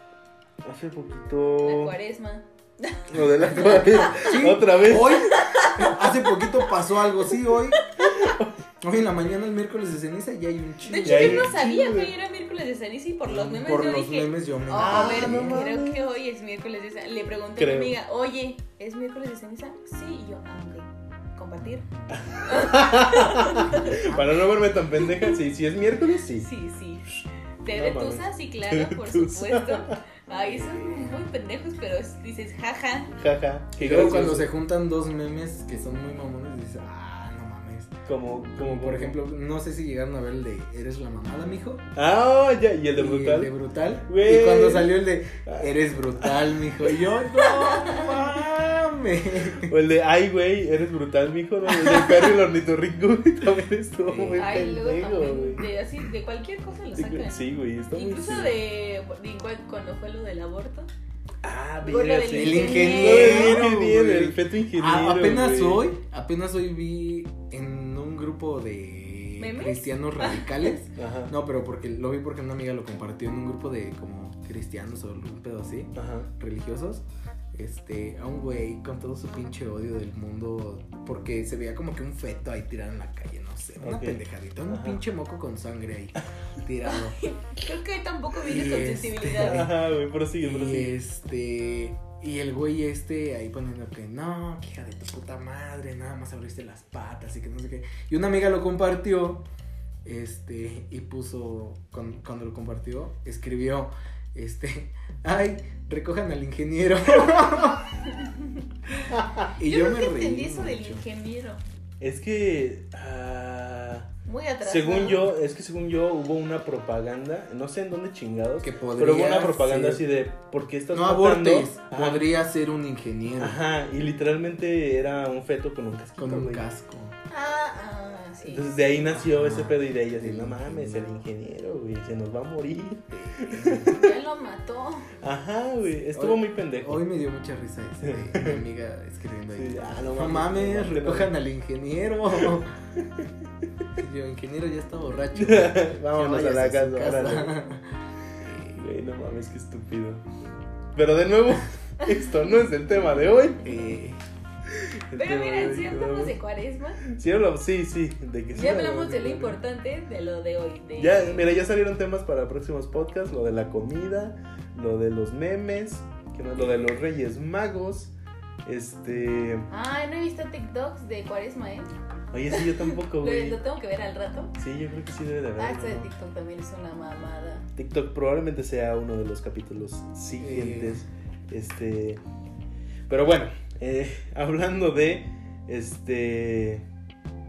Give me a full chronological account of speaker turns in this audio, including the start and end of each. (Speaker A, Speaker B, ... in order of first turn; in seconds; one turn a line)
Speaker A: 0.6-2.0
Speaker B: 1.6-4.4
Speaker A: 3.1-5.5
Speaker C: 3.4-7.8
Speaker B: 5.3-6.5
Speaker B: 7.8-8.3
Speaker A: 8.0-8.5
Speaker C: 8.8-11.5
Speaker B: 10.8-21.9
Speaker A: 11.1-12.1
Speaker C: 13.3-15.6
Speaker A: 14.8-16.1
Speaker A: 17.6-17.9
Speaker C: 21.6-22.2
Speaker A: 22.1-26.5
Speaker B: 22.5-23.9
Speaker C: 23.6-24.5
Speaker B: 25.0-25.3
Speaker B: 26.4-33.1
Speaker A: 27.7-30.9
Speaker A: 33.2-34.5
Speaker C: 33.8-37.9
Speaker A: 38.1-39.2
Speaker C: 38.6-41.8
Speaker A: 42.0-43.5
Speaker C: 43.0-49.7
Speaker A: 44.1-46.6
Speaker B: 47.5-48.1
Speaker A: 49.6-55.7
Speaker C: 51.7-52.0
Speaker C: 54.0-54.7
Speaker B: 54.4-60.9
Speaker A: 57.0-58.6
Speaker A: 61.4-65.9
Speaker B: 61.8-63.6
Speaker C: 62.3-87.2
Speaker B: 69.4-70.7
Speaker A: 71.0-71.3
Speaker A: 76.0-76.3
Speaker A: 83.8-85.0
Speaker B: 86.9-89.7
Speaker C: 88.4-89.7
Speaker A: 89.4-91.0
Speaker C: 90.4-99.5
Speaker C: 100.0-107.9
Speaker B: 108.2-108.6
Speaker A: 109.1-109.5
Speaker C: 109.6-111.0
Speaker B: 109.6-111.6
Speaker A: 112.0-114.1
Speaker B: 114.3-115.3
Speaker A: 114.6-122.3
Speaker C: 118.6-120.0
Speaker C: 120.9-123.6
Speaker A: 123.4-126.7
Speaker C: 126.2-127.2
Speaker B: 127.3-128.9
Speaker A: 128.4-134.1
Speaker C: 129.0-131.3
Speaker C: 133.1-134.0
Speaker B: 133.9-135.1
Speaker A: 135.2-137.0
Speaker C: 136.1-142.7
Speaker A: 138.0-138.6
Speaker A: 139.5-141.3
Speaker A: 142.5-143.3
Speaker C: 144.0-147.9
Speaker A: 145.4-147.6
Speaker C: 148.4-148.8
Speaker A: 148.7-150.2
Speaker A: 150.9-153.7
Speaker C: 153.6-154.2
Speaker A: 154.7-156.4
Speaker B: 155.1-157.1
Speaker A: 157.0-159.6
Speaker B: 158.5-161.5
Speaker A: 161.0-168.1
Speaker A: 168.7-169.7
Speaker B: 169.7-171.9
Speaker A: 172.3-173.6
Speaker B: 172.5-174.6
Speaker A: 174.6-176.1
Speaker B: 175.6-177.7
Speaker A: 177.8-182.2
Speaker C: 180.4-181.1
Speaker A: 183.1-186.8